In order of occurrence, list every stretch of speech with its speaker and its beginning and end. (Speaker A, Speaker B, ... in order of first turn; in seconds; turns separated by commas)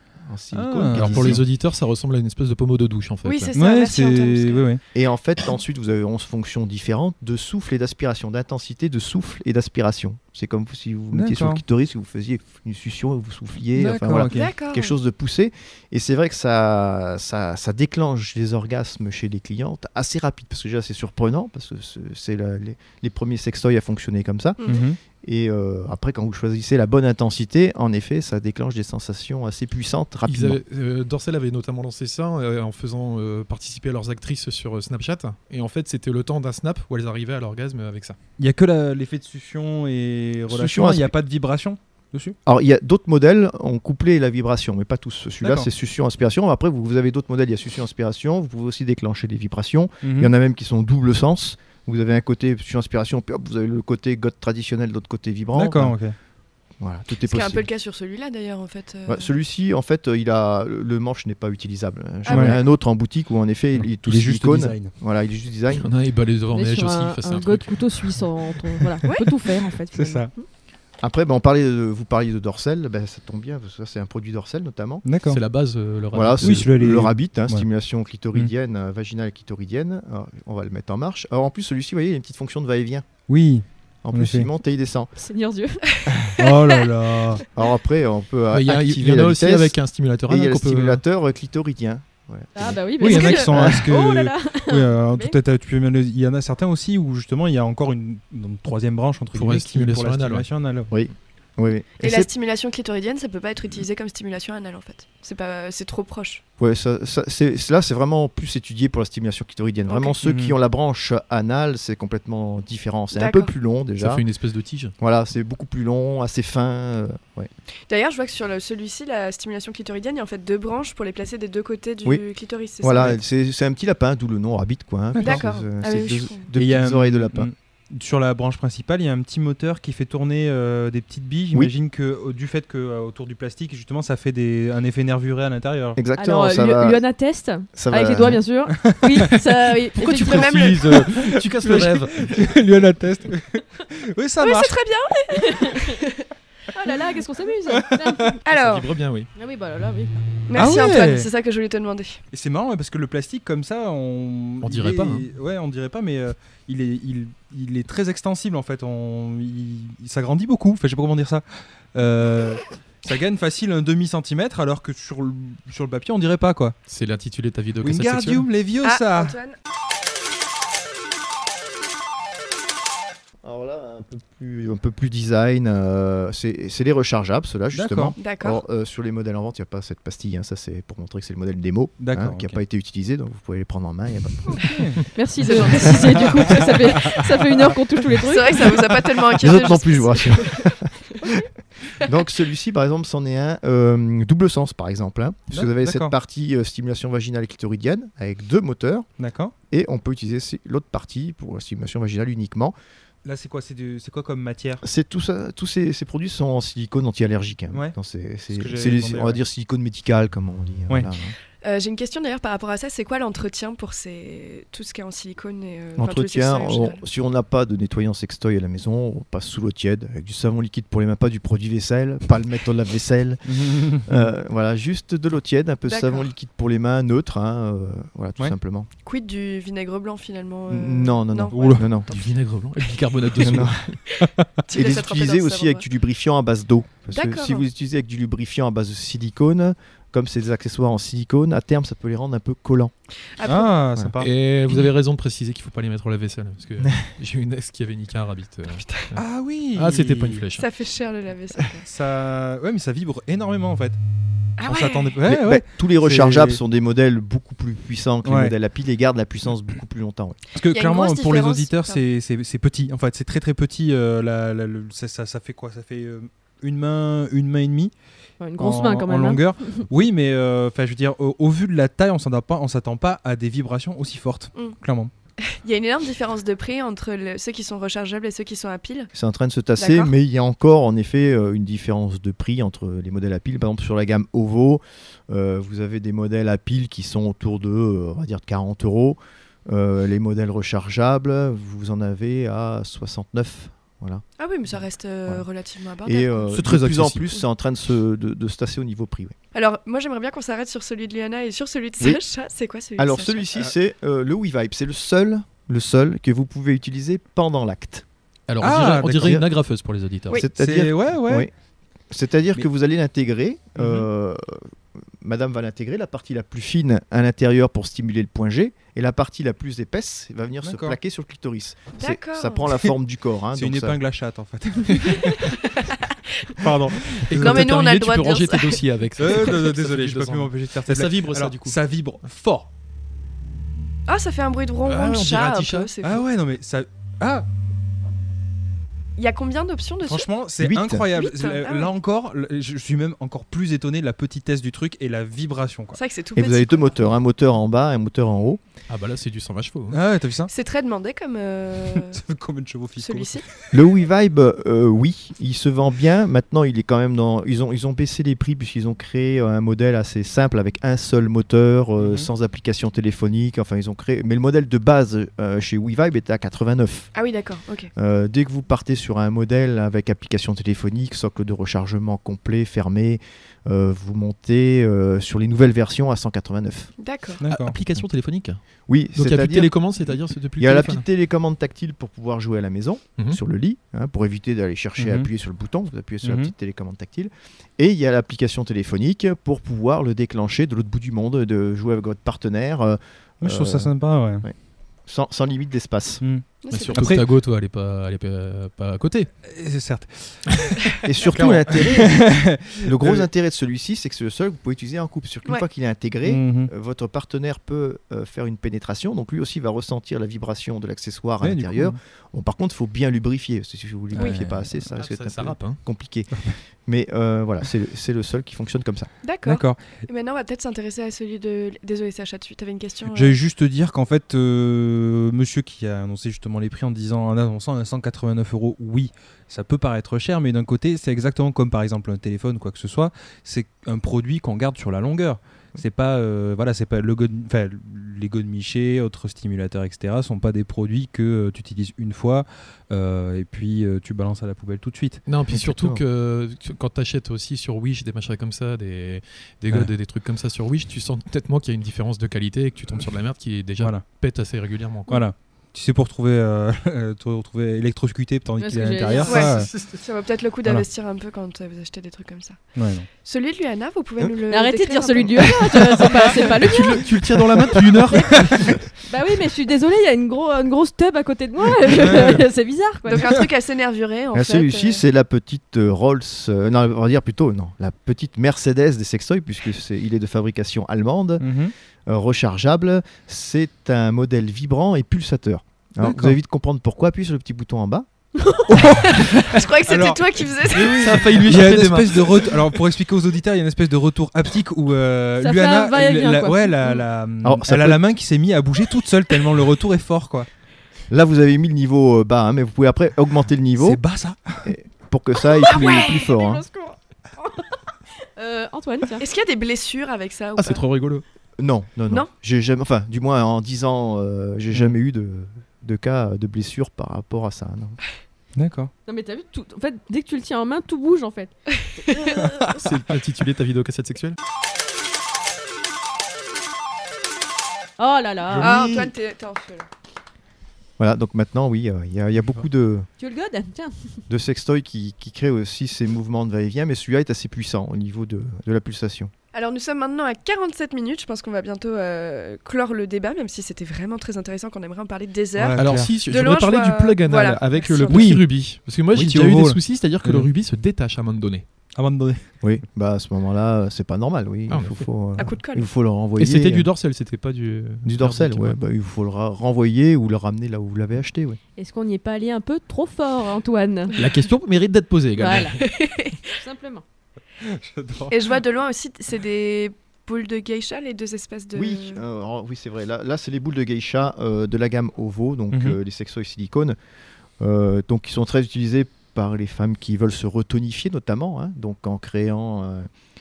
Speaker A: 0.2-1.4, Speaker B: 0.5-1.4, Speaker C: 0.9-3.5, Speaker D: 3.2-4.7, Speaker B: 3.5-4.8, Speaker A: 4.9-24.6, Speaker B: 11.1-11.6, Speaker B: 13.8-14.5, Speaker D: 14.3-14.9, Speaker B: 24.6-25.0, Speaker A: 25.1-30.6, Speaker C: 30.3-38.2, Speaker B: 38.4-42.4, Speaker A: 40.5-41.1, Speaker A: 42.5-56.0, Speaker B: 45.4-45.7, Speaker B: 50.0-50.3, Speaker B: 55.5-56.1, Speaker A: 56.8-57.7, Speaker D: 57.2-59.3, Speaker A: 59.1-65.9, Speaker D: 62.2-62.7, Speaker B: 62.3-62.6, Speaker B: 63.8-64.9, Speaker C: 65.7-67.9, Speaker E: 66.5-70.3, Speaker D: 69.1-69.3, Speaker B: 69.9-70.3, Speaker A: 71.0-75.0, Speaker B: 75.0-75.4, Speaker C: 75.3-76.7, Speaker A: 76.1-83.1, Speaker B: 76.4-77.7, Speaker B: 83.3-84.5, Speaker A: 84.0-85.1, Speaker E: 85.2-85.8, Speaker D: 85.9-86.9, Speaker B: 86.3-87.4, Speaker A: 87.5-89.8, Speaker C: 88.5-91.0, Speaker A: 90.3-93.9, Speaker E: 92.6-95.4, Speaker B: 93.0-100.9, Speaker C: 99.3-100.5, Speaker A: 100.9-102.3, Speaker D: 102.0-106.4, Speaker A: 106.6-114.2, Speaker D: 109.9-110.2, Speaker B: 110.2-110.5, Speaker D: 113.1-113.5, Speaker C: 114.0-114.9, Speaker A: 115.0-117.5, Speaker D: 117.9-123.2, Speaker A: 122.8-127.5, Speaker B: 125.2-125.4, Speaker D: 125.2-126.5, Speaker B: 126.6-136.0, Speaker A: 136.0-137.0, Speaker E: 136.2-140.6, Speaker A: 137.7-138.4, Speaker B: 138.8-139.4, Speaker C: 139.9-142.4, Speaker D: 140.1-140.9, Speaker B: 140.9-144.8, Speaker D: 144.4-146.3, Speaker E: 145.5-145.9, Speaker E: 146.7-148.4, Speaker B: 147.7-148.4, Speaker D: 148.4-148.9, Speaker C: 148.5-149.3, Speaker E: 149.3-150.2, Speaker D: 150.5-152.2, Speaker B: 150.6-151.3, Speaker B: 152.3-166.8, Speaker C: 154.6-155.3, Speaker C: 166.9-168.5, Speaker B: 167.8-169.4, Speaker D: 168.8-169.6, Speaker A: 173.4-184.8, Speaker B: 177.7-178.2, Speaker D: 178.2-178.6, Speaker B: 182.0-182.6, Speaker B: 184.5-185.0, Speaker E: 185.2-188.8, Speaker D: 185.4-186.5, Speaker B: 186.2-187.3, Speaker D: 188.2-190.8, Speaker A: 189.4-191.3, Speaker A: 192.0-199.1, Speaker B: 195.5-196.1, Speaker B: 199.2-199.5, Speaker A: 199.7-202.8, Speaker B: 203.2-204.8, Speaker A: 204.8-211.3, Speaker B: 208.5-209.4, Speaker D: 211.6-217.0, Speaker A: 216.0-228.9, Speaker B: 223.5-224.3, Speaker D: 225.9-226.3, Speaker D: 229.1-232.3, Speaker A: 230.7-232.1, Speaker B: 231.5-231.9, Speaker C: 232.1-234.0, Speaker A: 233.4-233.8, Speaker D: 234.2-235.8, Speaker A: 234.7-242.9, Speaker D: 237.1-237.6, Speaker D: 243.4-243.8, Speaker B: 243.4-244.3, Speaker C: 244.2-249.2, Speaker B: 249.2-250.4, Speaker C: 249.8-250.7, Speaker D: 250.6-251.9, Speaker B: 251.8-254.0, Speaker D: 254.6-255.2, Speaker B: 254.6-256.6, Speaker A: 255.2-260.4, Speaker B: 258.2-258.5, Speaker B: 260.5-267.9, Speaker D: 260.7-262.0, Speaker E: 268.4-269.8, Speaker B: 268.6-275.1, Speaker D: 275.4-279.1, Speaker A: 279.1-295.5, Speaker D: 279.8-280.1, Speaker D: 294.4-296.6, Speaker A: 296.1-299.4, Speaker C: 296.5-297.4, Speaker D: 299.5-303.5, Speaker A: 303.0-308.1, Speaker C: 308.5-310.4, Speaker B: 308.6-309.4, Speaker A: 309.1-309.4, Speaker A: 310.4-311.5, Speaker B: 310.6-311.5, Speaker A: 312.1-324.0, Speaker B: 313.8-314.1, Speaker B: 320.6-321.0, Speaker D: 322.0-322.7, Speaker B: 323.5-325.6, Speaker D: 325.3-326.7, Speaker B: 326.6-327.7, Speaker C: 327.2-331.8, Speaker D: 327.4-328.8, Speaker B: 329.2-332.7, Speaker D: 334.1-336.3, Speaker C: 334.9-335.9, Speaker B: 336.0-337.5, Speaker D: 339.2-340.3, Speaker B: 340.0-346.0, Speaker A: 340.6-341.1, Speaker D: 341.1-341.9, Speaker D: 345.9-346.9, Speaker A: 346.4-348.6, Speaker C: 348.9-350.0, Speaker B: 349.9-350.5, Speaker D: 350.5-352.2, Speaker B: 351.9-353.7, Speaker D: 353.0-353.4, Speaker A: 353.7-367.1, Speaker B: 362.0-362.3, Speaker D: 367.1-367.9, Speaker A: 368.0-376.9, Speaker D: 377.0-377.4, Speaker B: 377.4-377.8, Speaker C: 377.5-378.6, Speaker A: 378.9-394.5, Speaker C: 379.1-381.1, Speaker B: 385.0-385.3, Speaker B: 386.2-386.5, Speaker B: 393.4-394.5, Speaker A: 395.1-396.2, Speaker B: 396.2-397.3, Speaker D: 396.6-397.1, Speaker C: 396.7-399.3, Speaker B: 399.4-400.8, Speaker A: 401.0-419.1, Speaker C: 401.3-401.7, Speaker B: 401.4-403.2, Speaker B: 406.2-406.7, Speaker B: 411.4-412.0, Speaker B: 414.1-414.9, Speaker D: 414.2-414.4, Speaker C: 415.0-415.8, Speaker D: 419.2-423.4, Speaker B: 419.4-420.0, Speaker B: 423.1-445.3, Speaker C: 445.3-455.1, Speaker A: 445.5-446.0, Speaker B: 453.8-454.1, Speaker B: 455.1-459.7, Speaker E: 458.6-459.5, Speaker D: 459.3-466.5, Speaker C: 459.3-460.0, Speaker B: 462.8-463.1, Speaker E: 464.5-467.1, Speaker C: 466.5-468.7, Speaker E: 468.1-468.5, Speaker E: 469.0-473.3, Speaker B: 471.9-472.4, Speaker D: 473.1-475.0, Speaker A: 474.3-481.5, Speaker B: 481.4-481.7, Speaker A: 482.1-488.1, Speaker B: 486.0-486.4, Speaker E: 488.4-488.7, Speaker B: 488.7-500.5, Speaker D: 488.8-491.3, Speaker C: 490.7-492.6, Speaker E: 495.4-496.9, Speaker A: 497.4-498.0, Speaker A: 501.1-504.0, Speaker B: 503.8-504.7, Speaker A: 504.6-506.6, Speaker E: 505.6-507.8, Speaker D: 505.6-506.3, Speaker E: 508.4-509.2, Speaker D: 509.2-510.8, Speaker C: 510.6-511.2, Speaker A: 511.6-518.0, Speaker B: 518.6-518.9, Speaker E: 519.1-521.5, Speaker D: 522.0-522.4, Speaker E: 522.1-522.6, Speaker C: 522.7-524.4, Speaker E: 528.0-528.8, Speaker B: 528.5-529.0, Speaker D: 528.6-529.9, Speaker A: 531.0-533.1, Speaker E: 533.2-534.2, Speaker A: 534.3-539.3, Speaker D: 539.5-548.3, Speaker B: 545.6-546.2, Speaker C: 545.8-551.7, Speaker B: 548.1-548.5, Speaker B: 549.1-550.5, Speaker B: 552.0-552.4, Speaker A: 552.6-556.9, Speaker C: 554.7-555.1, Speaker D: 555.4-555.9, Speaker C: 556.4-558.8, Speaker A: 558.0-561.6, Speaker E: 561.8-564.1, Speaker C: 564.2-565.8, Speaker E: 565.4-565.8, Speaker D: 565.8-566.5, Speaker E: 566.5-567.0, Speaker B: 567.6-568.4, Speaker D: 568.3-572.2, Speaker A: 571.7-577.0, Speaker B: 575.7-576.0, Speaker A: 577.6-583.1